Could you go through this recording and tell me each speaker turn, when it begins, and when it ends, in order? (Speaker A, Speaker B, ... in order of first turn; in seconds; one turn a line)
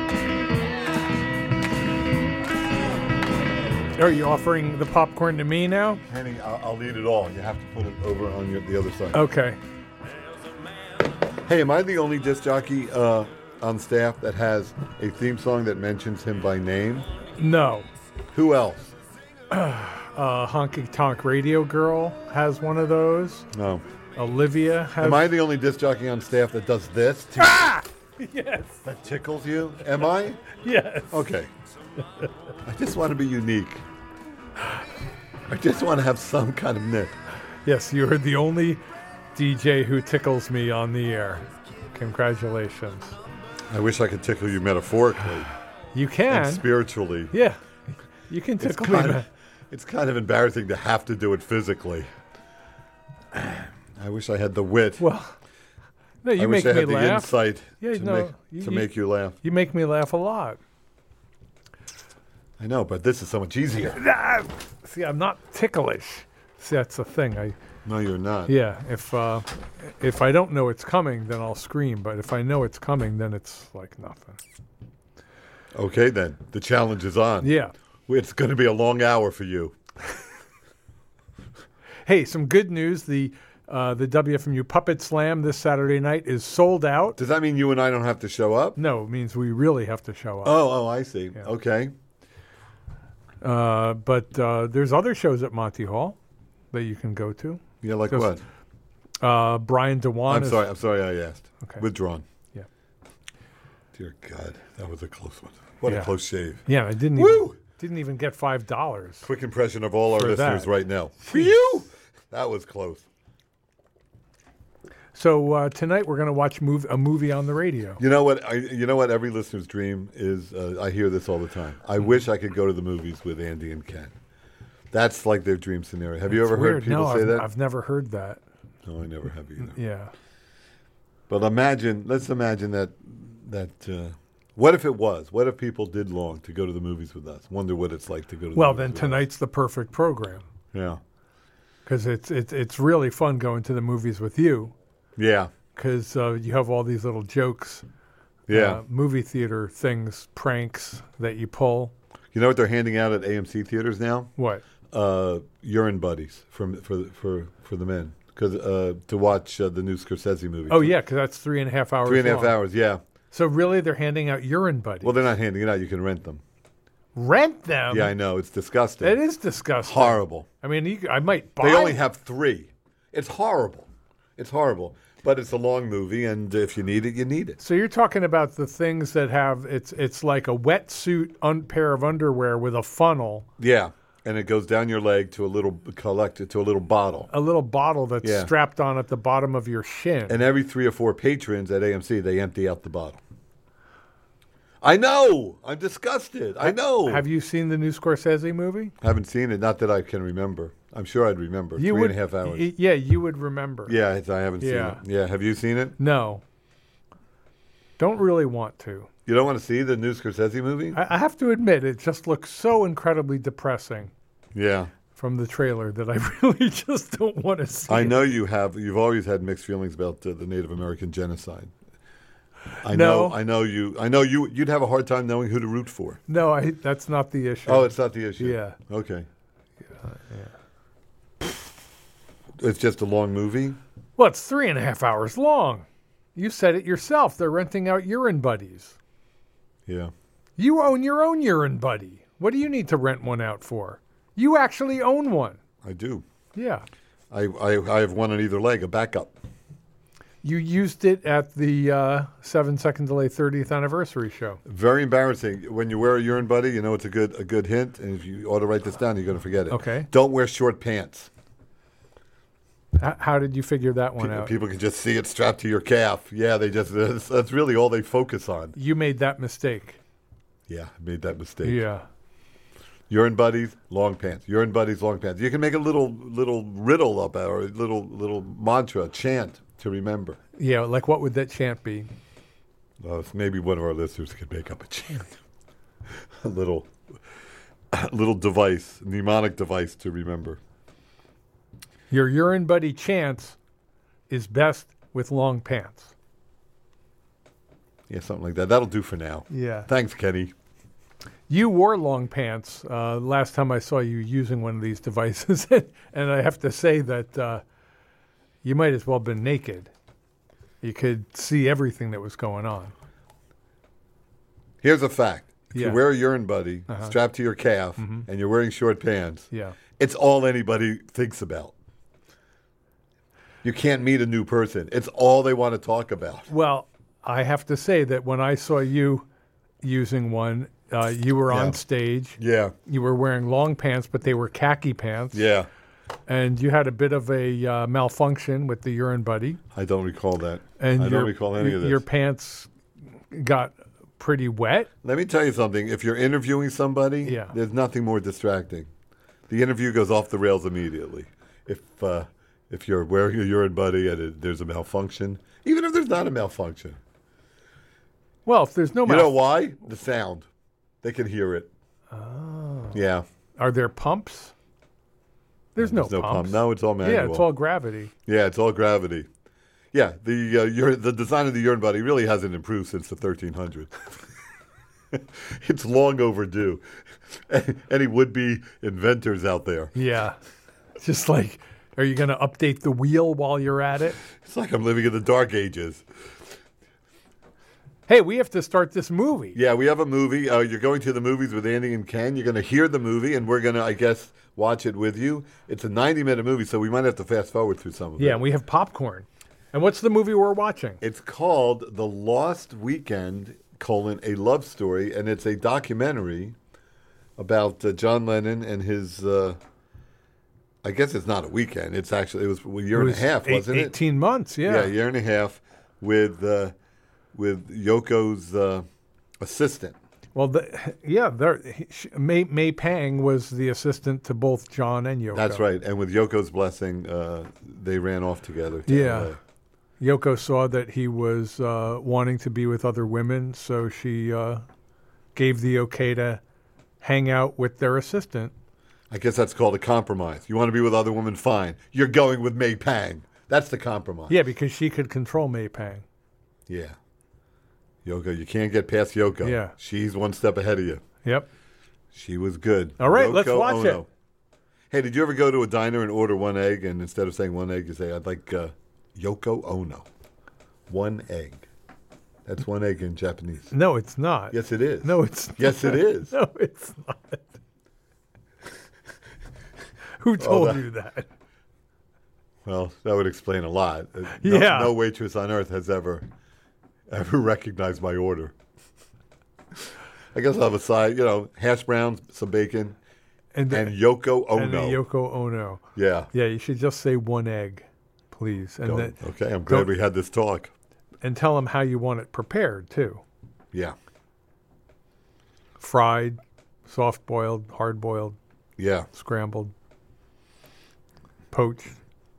Speaker A: 4.0-6.0
Speaker B: 6.1-9.2
Speaker A: 9.1-9.6
Speaker B: 11.5-17.1
Speaker A: 17.4-17.9
Speaker B: 18.3-18.9
Speaker A: 19.5-23.5
Speaker B: 23.5-23.8
Speaker A: 24.2-25.3
Speaker B: 25.0-27.6
Speaker A: 27.4-28.8
Speaker B: 28.8-30.4
Speaker A: 30.5-31.2
Speaker B: 31.1-31.5
Speaker B: 32.6-33.9
Speaker B: 35.5-37.1
Speaker A: 37.6-43.2
Speaker B: 43.7-45.5
Speaker A: 45.9-46.6
Speaker B: 46.3-47.3
Speaker A: 47.3-49.3
Speaker B: 48.6-52.1
Speaker B: 53.3-55.1
Speaker A: 55.0-55.4
Speaker A: 56.2-58.9
Speaker B: 56.4-59.4
Speaker A: 59.4-60.6
Speaker B: 62.6-64.0
Speaker A: 64.0-67.6
Speaker B: 67.8-68.5
Speaker A: 68.5-74.4
Speaker B: 75.7-77.5
Speaker A: 77.4-77.7
Speaker B: 78.1-79.8
Speaker A: 82.1-87.2
Speaker B: 87.2-88.8
Speaker A: 88.8-90.6
Speaker B: 90.4-91.9
Speaker A: 93.4-96.2
Speaker A: 96.7-98.3
Speaker B: 97.8-98.4
Speaker A: 99.2-100.6
Speaker B: 100.3-102.2
Speaker B: 103.9-106.6
Speaker A: 105.9-106.1
Speaker A: 106.7-109.3
Speaker B: 107.2-107.6
Speaker B: 109.2-113.1
Speaker A: 110.2-110.7
Speaker A: 111.2-111.6
Speaker A: 115.1-118.0
Speaker B: 118.0-124.1
Speaker B: 124.9-127.5
Speaker A: 126.3-128.4
Speaker B: 128.8-129.8
Speaker A: 129.6-130.1
Speaker B: 131.3-139.2
Speaker A: 138.6-140.4
Speaker B: 140.7-141.0
Speaker A: 141.9-144.7
Speaker B: 145.2-145.5
Speaker A: 145.8-147.8
Speaker B: 148.5-148.8
Speaker A: 148.5-151.9
Speaker B: 152.3-154.3
Speaker A: 154.4-154.6
Speaker B: 154.9-160.9
Speaker A: 160.7-162.6
Speaker B: 162.1-163.0
Speaker A: 163.3-165.2
Speaker B: 165.0-166.4
Speaker A: 167.2-168.1
Speaker B: 167.9-169.2
Speaker A: 169.0-172.0
Speaker B: 169.8-170.5
Speaker B: 171.6-177.6
Speaker A: 177.6-183.5
Speaker B: 183.6-187.3
Speaker A: 187.3-190.4
Speaker B: 188.2-188.5
Speaker B: 190.3-193.2
Speaker B: 194.8-197.3
Speaker A: 196.6-198.9
Speaker B: 199.0-202.7
Speaker A: 201.8-203.9
Speaker B: 203.9-206.0
Speaker A: 204.6-205.0
Speaker A: 206.0-206.4
Speaker A: 208.0-209.1
Speaker B: 209.3-211.0
Speaker A: 210.9-214.1
Speaker B: 214.5-214.9
Speaker A: 215.2-218.2
Speaker B: 217.9-221.7
Speaker B: 222.8-226.2
Speaker A: 222.9-223.4
Speaker A: 226.3-228.8
Speaker B: 227.7-229.3
Speaker A: 229.9-230.5
Speaker B: 232.6-233.8
Speaker A: 234.2-239.0
Speaker B: 239.9-240.1
Speaker A: 240.6-245.6
Speaker B: 245.8-246.2
Speaker A: 246.6-246.8
Speaker B: 247.3-249.4
Speaker A: 250.4-254.6
Speaker B: 254.7-261.3
Speaker A: 259.7-260.1
Speaker A: 263.0-264.5
Speaker B: 264.2-268.8
Speaker A: 268.8-270.0
Speaker B: 270.7-271.8
Speaker A: 271.6-272.1
Speaker B: 273.1-280.4
Speaker A: 280.6-282.1
Speaker B: 283.0-285.3
Speaker B: 286.4-286.9
Speaker B: 287.9-290.6
Speaker A: 292.1-293.6
Speaker A: 294.3-296.1
Speaker B: 298.1-300.5
Speaker A: 299.5-299.9
Speaker A: 301.5-307.6
Speaker A: 308.6-309.9
Speaker A: 310.8-312.9
Speaker B: 314.8-321.7
Speaker A: 315.7-316.0
Speaker A: 316.9-317.1
Speaker A: 318.0-318.3
Speaker A: 319.5-319.8
Speaker B: 323.6-326.5
Speaker A: 326.5-329.3
Speaker A: 329.8-335.5
Speaker B: 331.5-331.8
Speaker B: 332.4-332.7
Speaker B: 335.3-335.7
Speaker A: 336.3-339.6
Speaker B: 339.7-342.0
Speaker A: 340.8-342.7
Speaker A: 343.3-344.9
Speaker B: 345.0-348.9
Speaker A: 347.2-347.5
Speaker B: 349.5-357.0
Speaker A: 358.5-359.4
Speaker B: 359.1-360.5
Speaker B: 361.0-361.7
Speaker A: 362.1-363.0
Speaker B: 362.9-363.3
Speaker A: 363.6-364.5
Speaker A: 365.8-368.1
Speaker B: 365.8-367.5
Speaker B: 368.3-369.3
Speaker B: 369.9-373.9
Speaker B: 375.1-379.9
Speaker A: 379.9-380.4
Speaker A: 381.0-384.2
Speaker B: 384.3-386.1
Speaker A: 388.1-389.6
Speaker B: 389.6-398.4
Speaker A: 398.2-401.0
Speaker B: 401.0-406.6
Speaker B: 407.4-409.6
Speaker B: 410.8-414.0
Speaker A: 412.9-414.9
Speaker B: 414.6-416.8
Speaker B: 417.3-418.9
Speaker B: 419.4-420.0
Speaker A: 420.4-425.6
Speaker B: 425.3-429.4
Speaker A: 428.9-429.4
Speaker A: 430.0-434.7
Speaker A: 435.4-436.4
Speaker A: 437.0-438.5
Speaker B: 439.1-444.4
Speaker A: 444.3-446.1
Speaker B: 446.7-447.0
Speaker B: 448.0-451.0
Speaker A: 449.4-449.7
Speaker B: 452.1-454.1
Speaker A: 453.0-454.0
Speaker B: 454.9-460.1
Speaker B: 460.9-461.7
Speaker B: 462.5-463.7
Speaker A: 463.7-467.5
Speaker B: 464.5-466.3
Speaker A: 470.2-471.3
Speaker B: 470.4-470.8
Speaker B: 472.6-476.3
Speaker A: 474.4-474.9
Speaker B: 477.1-478.5
Speaker B: 480.3-483.0
Speaker A: 483.5-484.0
Speaker B: 483.7-485.0
Speaker A: 484.5-489.9
Speaker B: 485.9-486.3
Speaker B: 488.9-490.7
Speaker A: 491.2-493.2
Speaker A: 495.8-498.4
Speaker B: 498.8-499.1
Speaker A: 499.1-499.7
Speaker A: 501.5-502.0